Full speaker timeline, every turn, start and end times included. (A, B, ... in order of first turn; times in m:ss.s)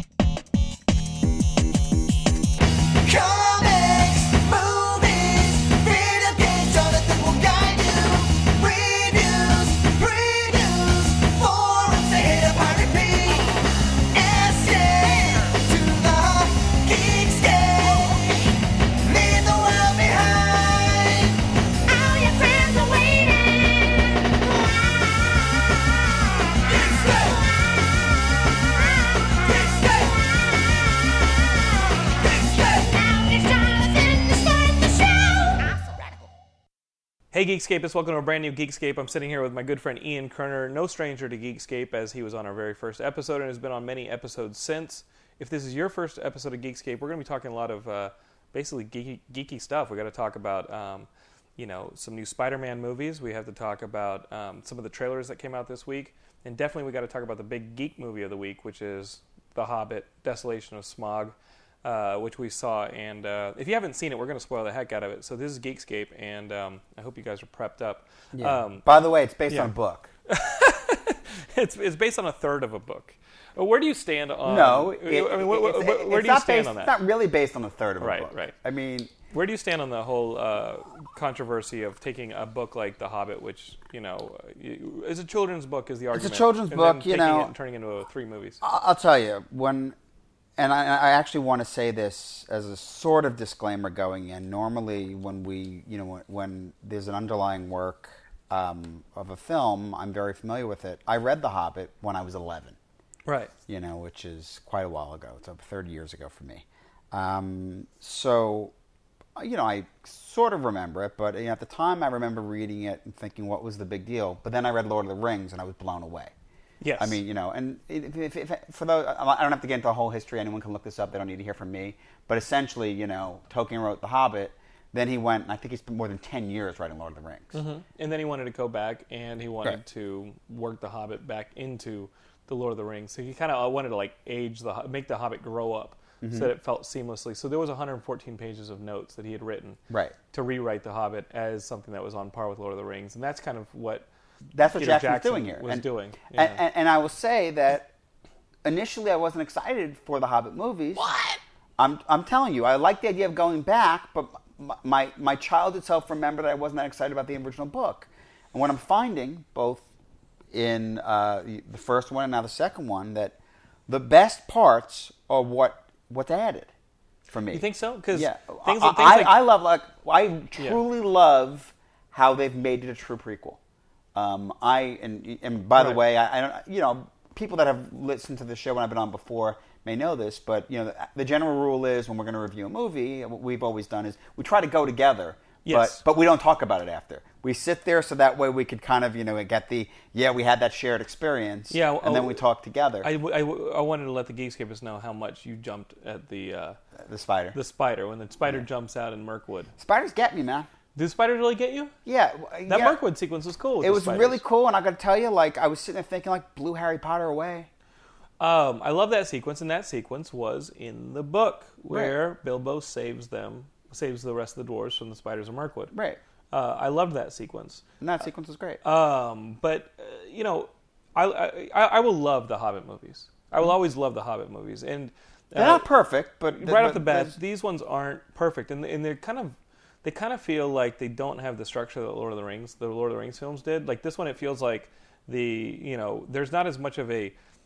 0:03.0-0:18.5 A
0:19.0-0:21.4 A
0:21.9-0:23.4 A
0:37.3-1:08.8 B
1:08.3-1:10.1 C
1:10.3-1:16.9 B
1:14.4-1:19.1 C
1:18.0-1:18.5 B
1:19.3-1:28.6 B
1:26.1-1:27.5 C
1:28.6-1:29.9 C
1:30.6-1:42.8 C
1:43.2-1:43.5 B
1:43.7-1:48.7 C
1:49.4-1:56.3 C
1:56.8-1:57.2 B
1:57.0-2:07.6 C
2:07.5-2:19.8 B
2:16.2-2:16.5 C
2:19.9-2:20.1 C
2:20.3-2:24.1 B
2:24.5-2:27.9 C
2:24.6-2:26.6 B
2:28.6-2:31.1 C
2:31.0-2:31.4 B
2:31.8-2:39.8 C
2:40.5-2:43.4 C
2:43.9-2:46.7 C
2:47.3-2:53.6 C
2:47.5-2:49.4 B
2:54.1-3:13.1 C
3:05.6-3:06.0 B
3:11.7-3:12.4 B
3:13.0-3:16.8 B
3:17.0-3:17.6 C
3:17.5-3:19.7 B
3:19.8-3:20.7 C
3:20.9-3:21.9 B
3:22.0-3:23.0 C
3:22.7-3:24.4 B
3:23.8-3:27.7 C
3:28.4-3:35.9 B
3:31.9-3:32.2 C
3:35.9-3:36.2 C
3:36.5-3:37.8 B
3:38.0-3:38.8 C
3:38.8-3:45.8 B
3:45.5-3:47.3 C
3:46.5-3:57.3 B